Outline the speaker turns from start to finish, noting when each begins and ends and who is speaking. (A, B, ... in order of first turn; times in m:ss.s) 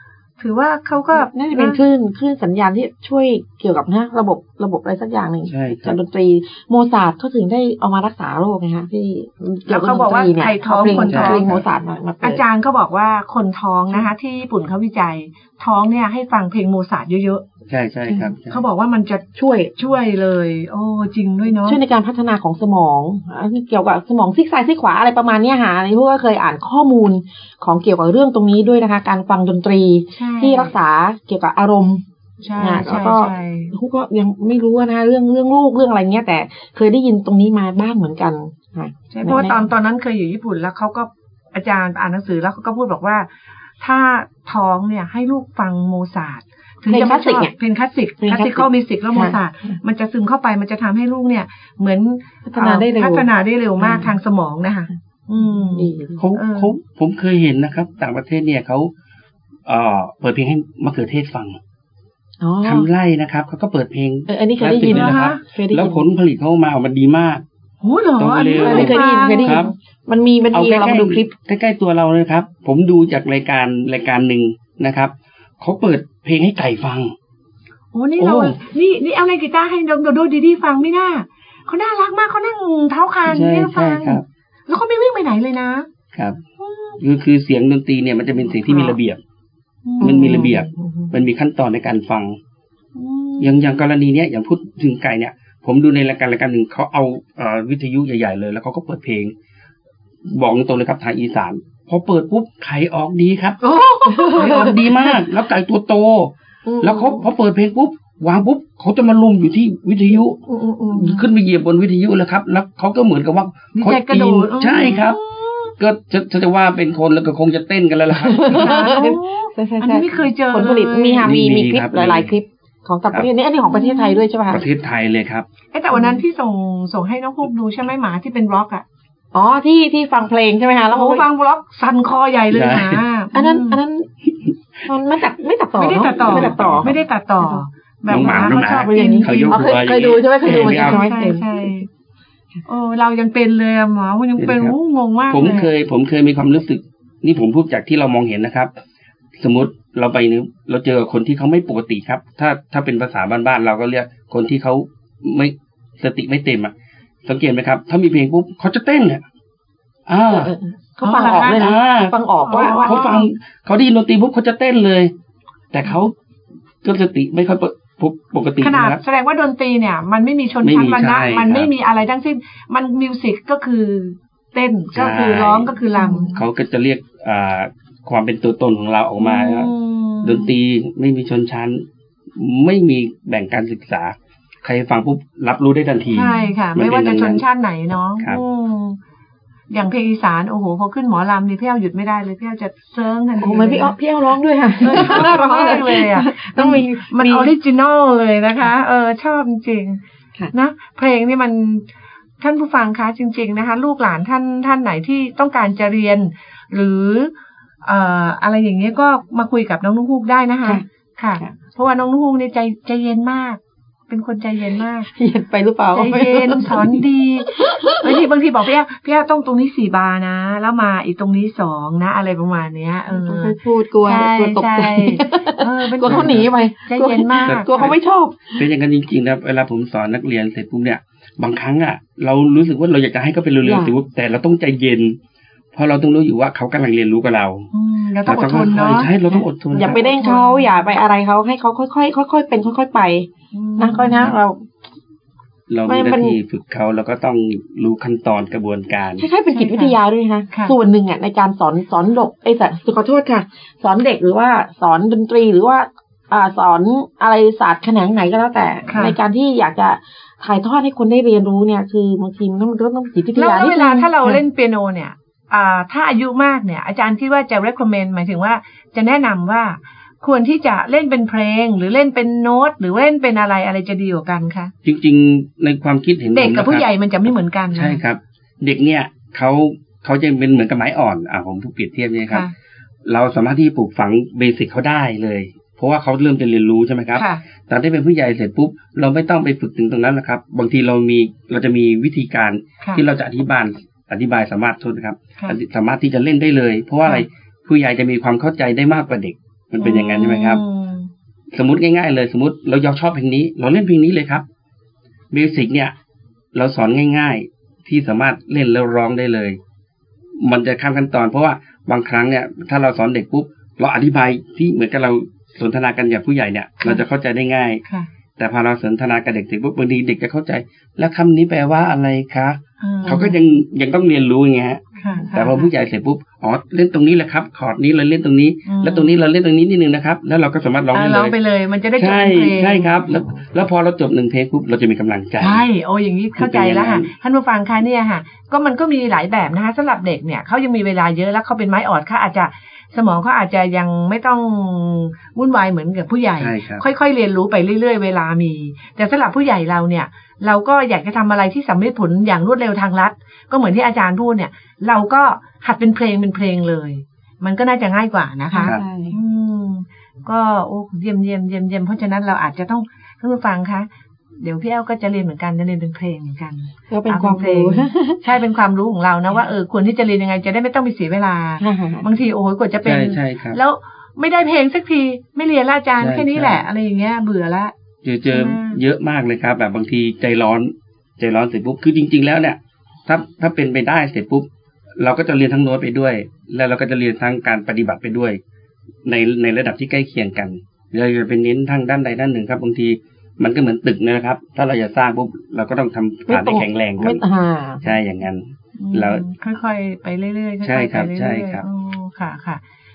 0:00.4-0:01.8 A
0:01.1-0:12.4 B
0:05.5-0:06.0 C
0:09.7-0:11.5 A
0:10.9-0:11.6 C
0:12.2-0:17.4 A
0:17.7-0:18.6 C
0:18.5-0:21.8 A
0:19.4-0:19.7 B
0:21.6-0:32.0 B
0:30.1-0:30.7 A
0:32.4-0:33.7 A
0:32.6-0:39.6 B
0:39.1-0:43.3 A
0:43.8-0:56.8 A
0:46.9-0:47.5 B
0:48.2-0:49.7 B
0:52.4-0:53.3 B
0:53.8-0:54.1 B
0:55.7-0:56.2 B
0:56.2-0:58.9 C
0:59.6-1:01.6 C
1:02.4-1:02.9 B
1:02.6-1:07.4 C
1:04.3-1:06.0 B
1:04.9-1:05.4 A
1:07.8-1:09.6 A
1:08.2-1:09.7 C
1:08.5-1:11.3 B
1:10.5-1:17.1 C
1:17.9-1:25.9 A
1:18.2-1:18.6 C
1:23.3-1:24.2 C
1:26.1-1:26.4 C
1:26.6-1:27.0 A
1:27.0-1:29.2 C
1:29.8-1:30.5 A
1:30.0-1:31.1 B
1:30.0-1:32.4 C
1:32.9-1:33.8 A
1:33.4-1:39.3 C
1:40.3-1:55.2 C
1:43.7-1:45.1 B
1:43.7-1:44.6 A
1:46.6-1:47.2 B
1:50.4-1:51.3 B
1:53.7-1:55.7 A
1:55.8-1:58.9 C
1:58.1-2:04.6 B
1:58.4-2:01.3 A
2:01.2-2:02.3 C
2:03.6-2:04.2 A
2:04.5-2:05.4 C
2:05.7-2:08.8 A
2:05.9-2:06.2 B
2:09.3-2:11.2 B
2:10.9-2:13.8 A
2:12.5-2:13.0 C
2:13.3-2:14.1 B
2:14.8-2:16.9 B
2:15.8-2:19.7 A
2:16.2-2:17.0 C
2:17.4-2:21.7 B
2:18.1-2:21.1 C
2:20.4-2:21.9 A
2:22.6-2:25.7 A
2:24.4-2:24.7 C
2:25.3-2:28.7 C
2:29.4-2:36.7 C
2:37.2-2:39.2 C
2:40.1-2:40.5 C
2:40.3-2:43.2 B
2:41.0-2:41.7 A
2:41.4-2:45.1 C
2:42.4-2:43.2 A
2:45.7-2:46.1 C
2:46.8-2:49.0 C
2:48.6-2:56.3 A
2:50.6-2:51.7 C
2:54.9-2:55.7 C
2:56.0-2:56.4 B
2:56.3-3:07.4 C
2:59.2-3:00.5 A
3:06.1-3:09.0 A
3:09.7-3:14.0 A
3:13.4-3:17.5 B
3:14.8-3:20.0 A
3:20.5-3:21.9 A
3:22.4-3:27.3 A
3:27.8-3:35.1 A
3:35.1-3:37.0 B
3:35.9-3:47.9 A
3:37.6-3:38.2 B
3:43.2-3:48.6 B
3:46.0-3:46.5 C
3:47.4-3:47.9 C
3:48.6-3:55.2 C
3:53.6-3:53.9 B
3:55.7-3:57.7 C
3:57.7-3:59.1 A
3:58.2-4:00.2 C
3:59.7-4:03.3 B
3:59.8-4:00.9 A
4:03.5-4:04.3 A
4:03.8-4:04.6 B
4:05.7-4:09.2 C
4:05.9-4:06.4 B
4:09.2-4:24.4 B
4:09.5-4:10.0 A
4:10.5-4:10.7 A
4:18.9-4:19.2 A
4:23.3-4:34.7 A
4:34.8-4:36.8 C
4:36.3-4:38.0 A
4:37.7-4:42.4 C
4:43.0-5:00.6 C
4:47.1-4:47.4 A
4:59.8-5:01.1 A
5:01.5-5:04.4 C
5:05.3-5:05.9 C
5:06.5-5:09.6 C
5:10.4-5:17.8 C
5:18.4-5:31.4 C
5:22.8-5:23.4 A
5:25.0-5:25.7 A
5:28.6-5:29.1 A
5:30.9-5:33.0 A
5:32.0-5:35.6 C
5:35.4-6:03.9 A
5:36.4-5:37.1 C
5:46.4-5:46.8 C
5:58.5-5:59.1 B
6:04.4-6:17.7 A
6:06.9-6:08.2 B
6:11.6-6:12.1 B
6:12.8-6:13.6 C
6:16.0-6:16.6 C
6:18.0-6:24.5 C
6:18.3-6:18.8 A
6:25.0-6:28.4 C
6:29.0-6:37.2 C
6:36.3-6:37.8 B
6:37.8-6:39.2 C
6:38.8-6:42.6 A
6:40.6-6:41.6 C